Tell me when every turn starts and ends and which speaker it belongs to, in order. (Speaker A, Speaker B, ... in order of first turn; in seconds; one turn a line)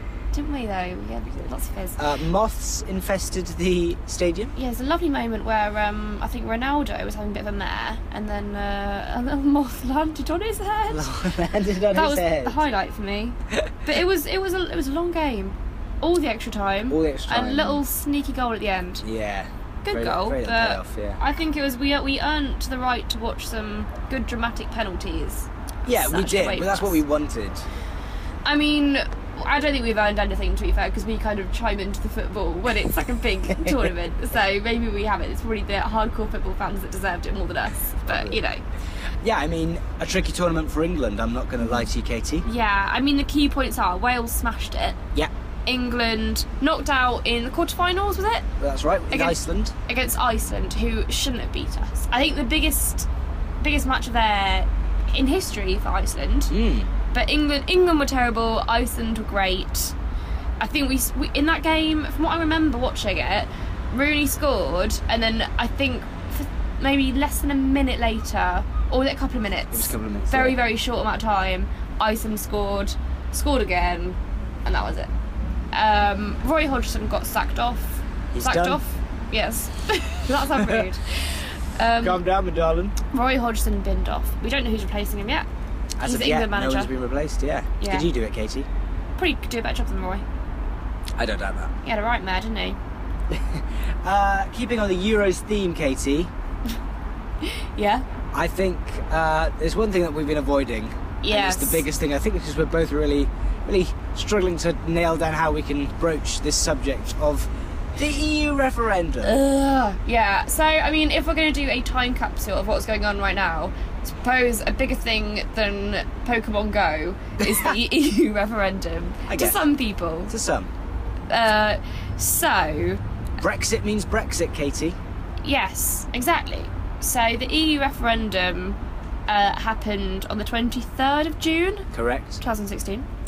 Speaker A: 0.3-2.0
Speaker B: 2.0-4.5
Speaker A: 4.5-11.1
Speaker B: 10.9-12.6
Speaker A: 11.9-19.0
Speaker B: 16.9-17.8
Speaker B: 19.0-21.2
Speaker A: 19.8-27.0
Speaker B: 25.9-27.6
Speaker A: 28.4-38.6
Speaker B: 33.5-33.9
Speaker B: 38.0-38.4
Speaker B: 39.2-42.4
Speaker A: 42.4-45.0
Speaker A: 45.6-48.5
Speaker B: 48.6-49.7
Speaker A: 49.1-53.1
Speaker A: 53.6-56.5
Speaker B: 56.5-56.9
Speaker A: 57.1-59.9
Speaker A: 60.6-75.1
Speaker B: 69.7-70.6
Speaker A: 75.7-82.2
Speaker B: 78.3-78.8
Speaker B: 80.5-80.8
Speaker B: 82.0-82.9
Speaker A: 83.1-85.5
Speaker B: 86.0-88.7
Speaker A: 86.0-86.9
Speaker A: 87.8-88.1
Speaker A: 89.2-90.2
Speaker B: 91.2-91.7
Speaker A: 91.8-92.8
Speaker B: 93.3-96.3
Speaker A: 97.4-98.0
Speaker B: 98.3-109.4
Speaker A: 101.2-101.8
Speaker A: 109.2-120.3
Speaker B: 117.4-117.7
Speaker B: 119.3-119.6
Speaker B: 120.3-120.7
Speaker A: 121.3-123.0
Speaker B: 123.4-125.0
Speaker A: 125.4-131.9
Speaker B: 131.9-132.4
Speaker A: 132.4-133.1